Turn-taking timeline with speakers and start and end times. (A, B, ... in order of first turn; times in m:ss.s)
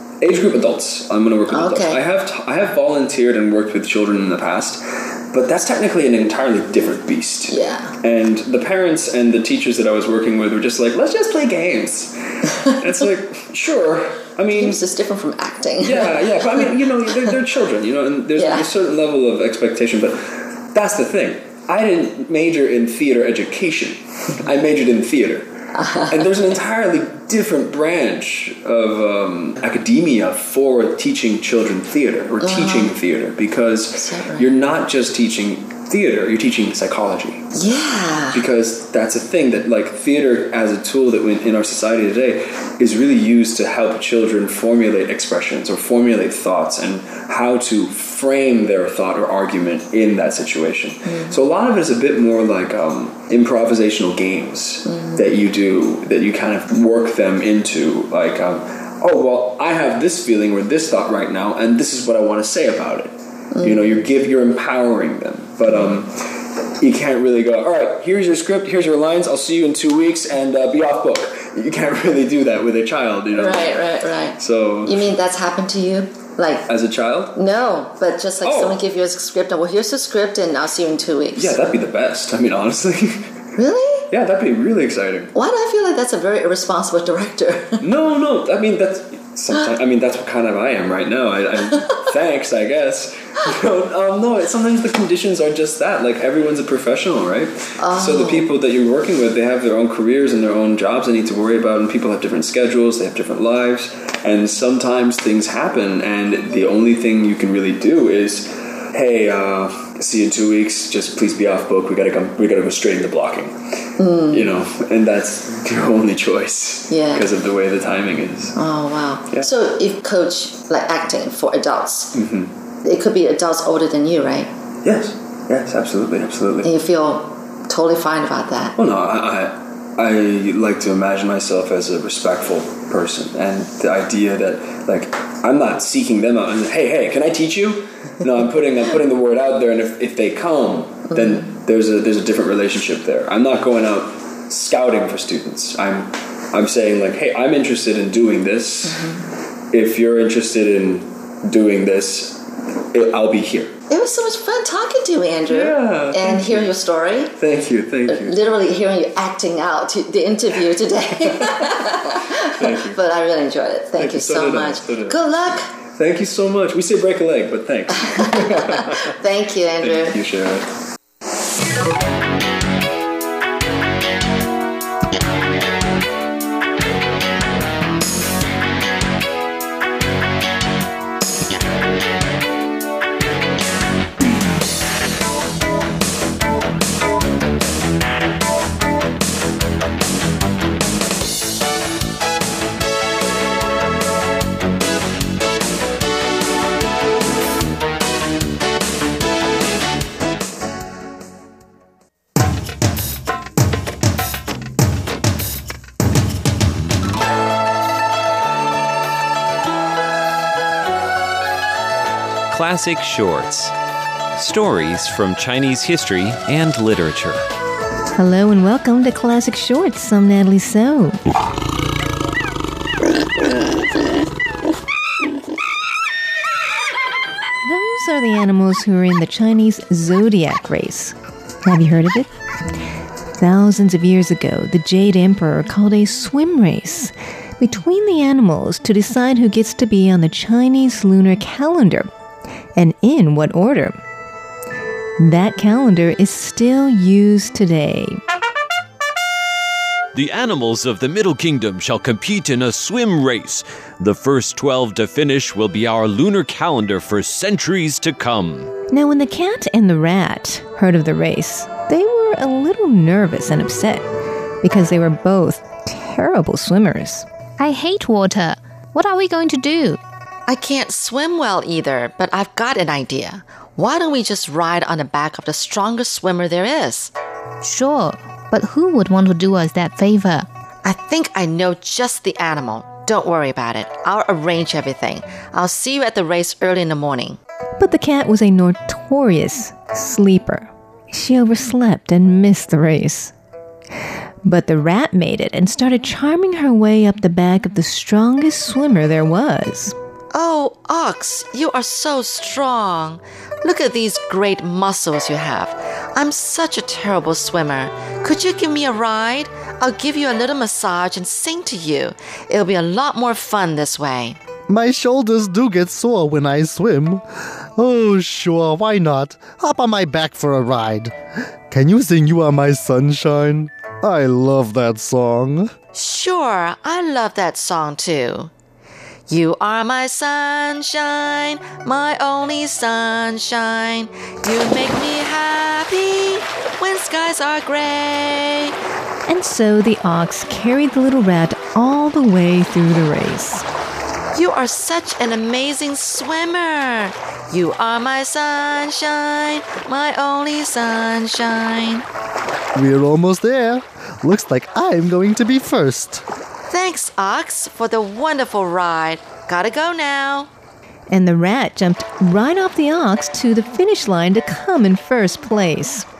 0:00.2-0:14.8 A
0:01.5-0:02.0 B
0:07.5-0:07.9 B
0:14.5-0:17.3 B
0:15.8-0:25.5 A
0:18.4-0:18.7 B
0:25.7-0:26.3 B
0:26.1-0:37.5 A
0:32.4-0:32.9 B
0:34.0-0:34.5 B
0:37.5-0:38.4 B
0:38.3-1:13.8 A
0:51.1-0:51.4 B
0:54.8-0:55.2 B
1:03.5-1:03.9 B
1:05.7-1:06.0 B
1:13.3-1:16.7 B
1:14.4-1:15.1 A
1:16.7-1:17.4 A
1:17.3-1:21.6 B
1:18.4-1:18.8 A
1:21.3-1:23.3 A
1:23.6-1:24.1 B
1:24.1-1:25.3 A
1:25.3-1:27.8 B
1:27.8-1:58.6 A
1:37.8-1:38.5 B
1:54.0-1:54.5 B
1:56.9-1:57.3 B
1:58.6-2:02.1 B
2:02.1-2:02.5 A
2:02.8-2:04.5 B
2:04.8-2:06.7 A
2:06.6-2:08.7 B
2:08.8-2:29.1 A
2:21.1-2:21.5 B
2:28.8-2:29.2 B
2:29.7-2:33.7 A
2:33.9-2:37.3 B
2:35.5-2:36.8 A
2:37.4-2:38.4 A
2:38.1-2:45.7 B
2:42.4-2:43.0 A
2:44.0-2:45.2 A
2:46.0-2:49.1 A
2:48.0-2:50.2 B
2:49.8-2:50.7 A
3:32.5-3:33.7 C
3:34.4-3:37.4 C
3:38.1-3:41.2 D
3:47.6-3:52.3 D
3:53.4-4:02.1 D
4:02.8-4:04.0 D
4:05.2-4:08.2 D
4:10.1-4:18.7 C
4:18.9-4:24.0 D
4:24.6-4:27.2 D
4:27.6-4:30.0 E
4:30.5-4:37.1 B
4:37.6-4:40.5 E
4:40.8-4:47.4 B
4:47.8-4:53.3 D
4:54.4-4:59.9 D
5:00.3-5:14.4 B
5:14.7-5:21.1 F
5:21.7-5:25.7 F
5:25.9-5:28.5 B
5:29.3-5:38.7 B
5:39.3-5:43.6 D
5:44.3-5:52.0 B
5:52.7-5:56.2 F
5:56.7-6:00.5 B
6:01.1-6:06.0 D